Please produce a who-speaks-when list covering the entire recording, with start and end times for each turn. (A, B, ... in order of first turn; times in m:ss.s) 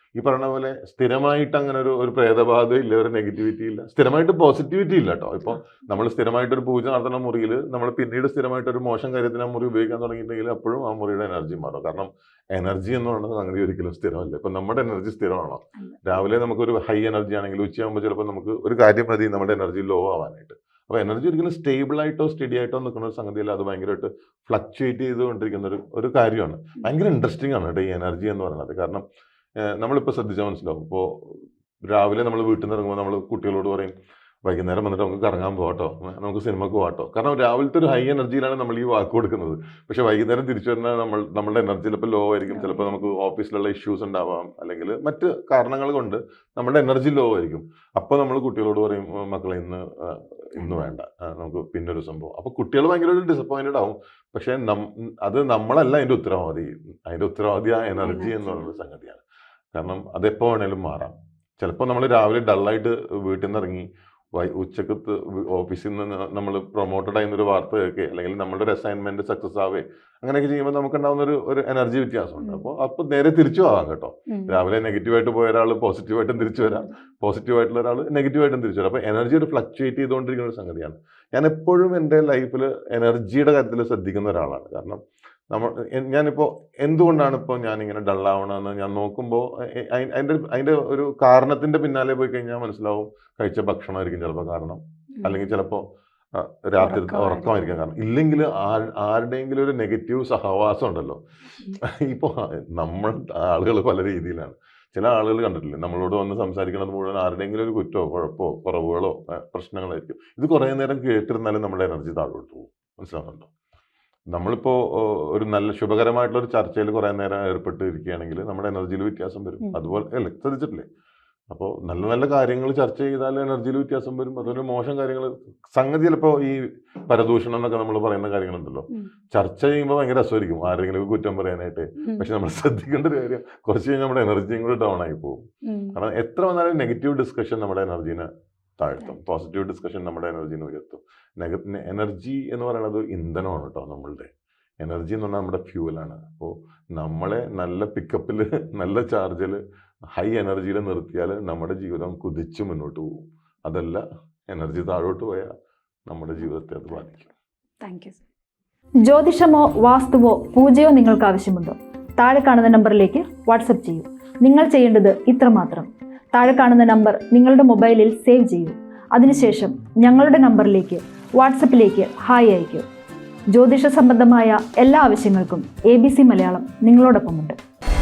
0:00.2-0:29.0 A
0:15.8-0:16.0 B
0:29.6-0:33.9 A
0:34.4-0:59.2 A
0:42.5-0:43.0 B
0:50.6-0:50.9 B
0:58.0-0:58.7 B
0:59.7-1:25.0 A
1:12.4-1:12.7 B
1:14.3-1:14.6 B
1:16.6-1:16.9 B
1:25.5-1:35.8 A
1:36.4-1:41.2 A
1:36.8-1:37.5 B
1:41.8-1:53.5 A
1:54.3-2:00.8 A
2:01.5-2:15.4 A
2:12.0-2:12.3 B
2:15.6-2:16.0 B
2:15.9-2:18.3 A
2:18.8-2:24.3 A
2:24.8-2:29.6 A
2:30.1-2:35.5 A
2:36.1-2:37.3 A
2:36.4-2:37.0 B
2:37.8-2:38.2 B
2:39.0-2:52.9 C
2:53.5-2:57.6 C